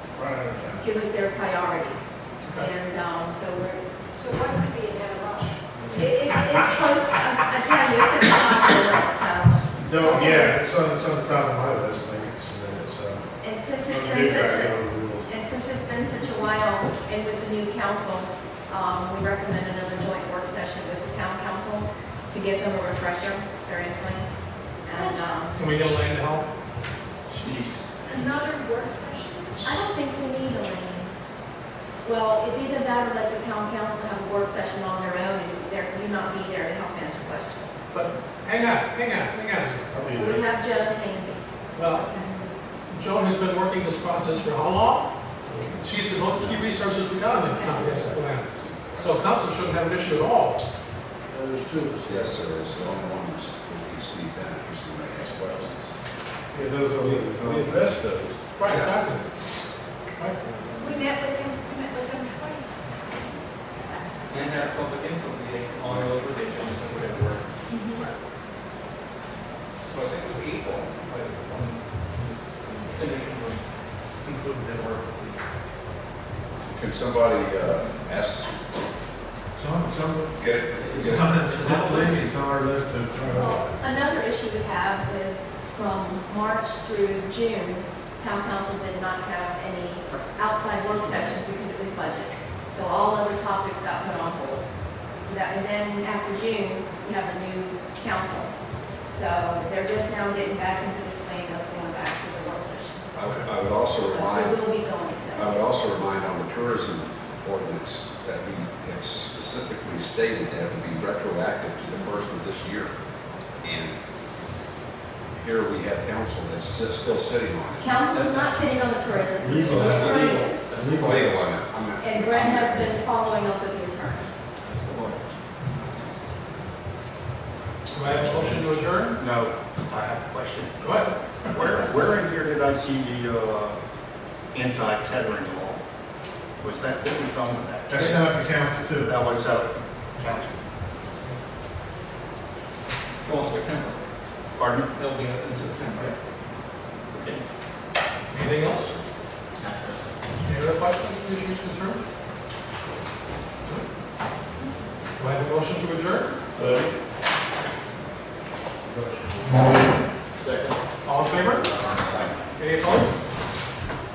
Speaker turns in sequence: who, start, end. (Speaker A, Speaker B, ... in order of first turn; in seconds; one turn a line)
Speaker A: 0.1-0.8
Speaker B: 0.8-3.8
Speaker C: 4.1-5.6
Speaker B: 5.9-10.5
Speaker A: 9.8-15.3
Speaker D: 10.0-10.4
Speaker B: 13.4-24.3
Speaker B: 24.8-25.5
Speaker C: 24.9-25.3
Speaker D: 25.5-26.5
Speaker D: 27.3-27.8
Speaker C: 28.0-29.7
Speaker B: 29.6-31.1
Speaker B: 32.0-37.8
Speaker D: 37.9-39.9
Speaker A: 39.9-40.5
Speaker B: 40.1-42.5
Speaker D: 41.7-42.1
Speaker D: 42.9-50.6
Speaker E: 46.0-46.7
Speaker B: 47.4-48.0
Speaker E: 48.0-49.4
Speaker A: 51.3-53.1
Speaker E: 52.0-55.9
Speaker A: 56.5-58.4
Speaker D: 57.0-58.0
Speaker D: 58.5-59.2
Speaker E: 58.6-59.0
Speaker D: 60.1-60.4
Speaker C: 60.8-63.2
Speaker C: 63.8-64.0
Speaker F: 64.3-68.0
Speaker F: 69.9-75.4
Speaker E: 76.7-78.5
Speaker F: 77.5-78.0
Speaker A: 79.5-80.4
Speaker E: 80.3-81.3
Speaker F: 80.8-82.3
Speaker A: 81.0-83.8
Speaker B: 83.3-103.2
Speaker E: 103.2-104.6
Speaker B: 104.0-105.6
Speaker E: 105.3-112.9
Speaker E: 113.6-114.0
Speaker E: 115.3-118.3
Speaker B: 117.8-120.7
Speaker F: 118.1-118.6
Speaker A: 119.2-121.4
Speaker E: 119.7-123.0
Speaker F: 119.7-121.4
Speaker B: 122.0-124.3
Speaker F: 124.6-126.3
Speaker D: 127.9-129.2
Speaker G: 129.2-133.8
Speaker D: 130.8-131.1
Speaker G: 134.5-135.8
Speaker G: 136.6-138.3
Speaker A: 137.9-139.1
Speaker G: 139.0-140.6
Speaker F: 143.2-144.1
Speaker G: 144.5-144.9
Speaker F: 144.9-146.1
Speaker G: 145.5-146.1
Speaker G: 147.1-147.4
Speaker D: 148.3-148.9
Speaker G: 149.6-150.0
Speaker D: 150.4-152.0
Speaker D: 155.2-156.4
Speaker F: 156.5-156.9
Speaker A: 156.6-156.8
Speaker A: 158.9-159.6
Speaker F: 160.4-160.7
Speaker D: 161.0-161.7
Speaker G: 161.6-162.5
Speaker D: 162.6-163.1